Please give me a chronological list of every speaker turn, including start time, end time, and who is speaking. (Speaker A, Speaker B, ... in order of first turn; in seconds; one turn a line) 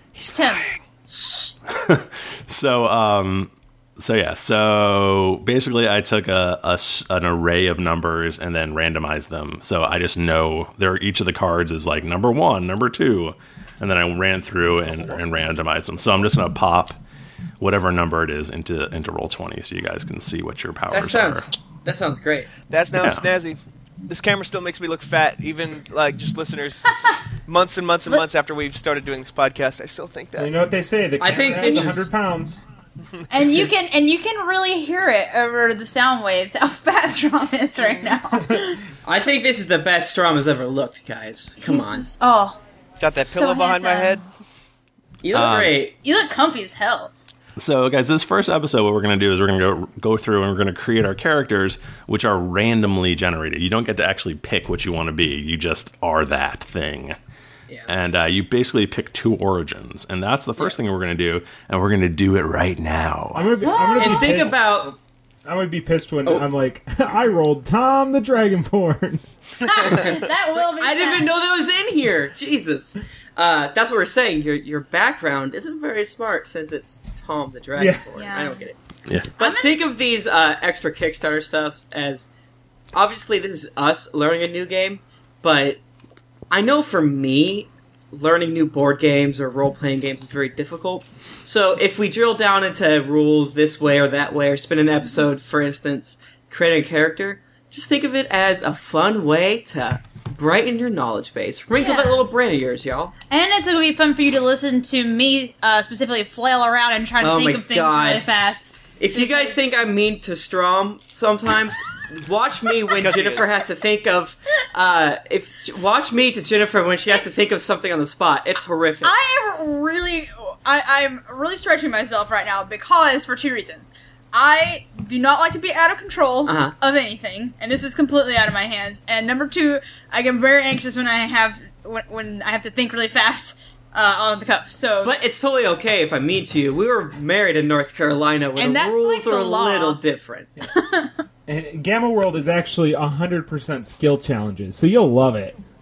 Speaker A: 0.2-0.7
Speaker B: 1.1-1.6
Speaker C: 1.7-17.0
Speaker C: 17.6-21.5
Speaker B: 20.9-22.6
Speaker D: 22.6-26.9
Speaker C: 23.0-23.3
Speaker D: 27.4-30.5
Speaker E: 30.4-32.6
Speaker B: 31.2-32.1
Speaker A: 33.3-38.8
Speaker B: 39.0-42.1
Speaker A: 41.6-42.6
Speaker D: 43.0-44.2
Speaker A: 43.2-44.2
Speaker B: 45.2-45.9
Speaker C: 45.3-45.8
Speaker A: 46.0-47.1
Speaker C: 47.6-57.2
Speaker B: 57.7-57.9
Speaker C: 57.9-63.5
Speaker E: 63.3-69.2
Speaker A: 63.6-64.5
Speaker B: 64.0-65.0
Speaker A: 69.6-71.3
Speaker B: 69.9-78.8
Speaker E: 77.8-78.1
Speaker A: 78.1-78.6
Speaker B: 79.4-82.3
Speaker A: 79.4-79.8
Speaker B: 82.9-85.8
Speaker B: 86.5-103.1
Speaker A: 101.8-102.2
Speaker A: 103.3-109.6
Speaker B: 107.2-108.2
Speaker B: 109.0-119.1
Speaker D: 113.0-113.5
Speaker A: 119.0-135.1
Speaker B: 126.5-126.7
Speaker B: 135.0-140.5
Speaker A: 138.6-140.0
Speaker A: 140.7-141.1
Speaker E: 141.5-145.6